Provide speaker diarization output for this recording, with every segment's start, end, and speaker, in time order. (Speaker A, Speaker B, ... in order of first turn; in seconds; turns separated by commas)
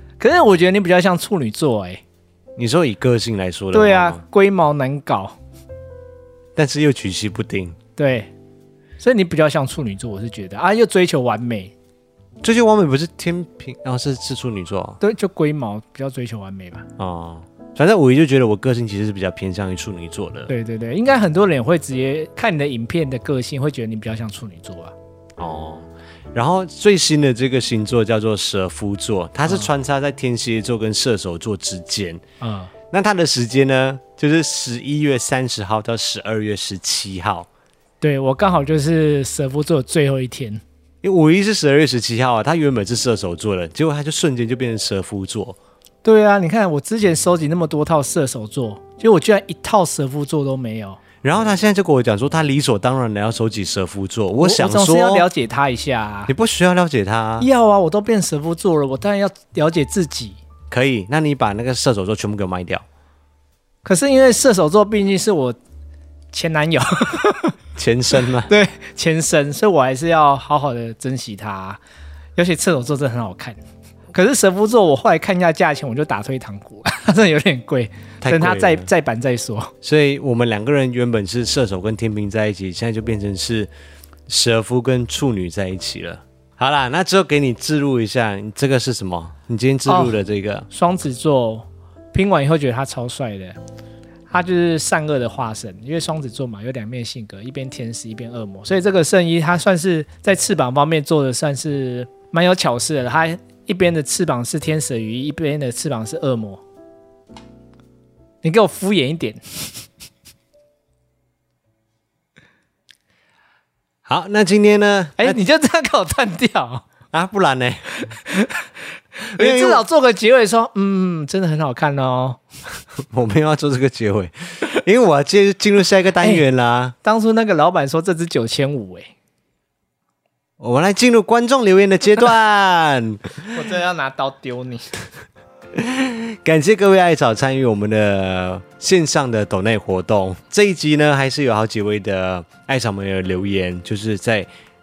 Speaker A: 0.2-2.0, Speaker B: 2.6-4.2, Speaker A: 3.7-5.4, Speaker B: 6.6-7.8, Speaker A: 8.0-8.3, Speaker A: 9.0-11.7, Speaker B: 12.4-15.0, Speaker A: 15.0-16.9, Speaker B: 17.0-20.5, Speaker A: 20.5-24.9, Speaker B: 25.4-32.2, Speaker A: 32.4-32.7, Speaker B: 32.9-37.5, Speaker A: 38.0-40.6, Speaker B: 41.0-45.6, Speaker A: 46.0-51.0, Speaker B: 51.2-55.3, Speaker A: 54.4-56.3, Speaker B: 56.3-57.5, Speaker A: 57.4-60.4, Speaker B: 60.7-62.8, Speaker A: 63.8-65.6, Speaker A: 66.3-67.6, Speaker B: 67.8-68.5, Speaker A: 68.2-71.8, Speaker A: 72.4-73.6, Speaker A: 74.1-79.7, Speaker B: 78.2-78.9, Speaker B: 79.8-83.7, Speaker B: 84.3-90.7, Speaker A: 89.9-90.2, Speaker A: 90.7-93.6, Speaker A: 94.3-106.6, Speaker A: 108.4-109.8, Speaker B: 114.1-115.4, Speaker A: 115.2-116.8, Speaker B: 117.1-117.8, Speaker A: 118.0-118.7, Speaker A: 119.2-122.4, Speaker B: 119.3-119.8, Speaker B: 123.0-127.0, Speaker A: 127.0-129.1, Speaker B: 130.6-133.6, Speaker A: 133.5-134.9, Speaker B: 135.7-144.5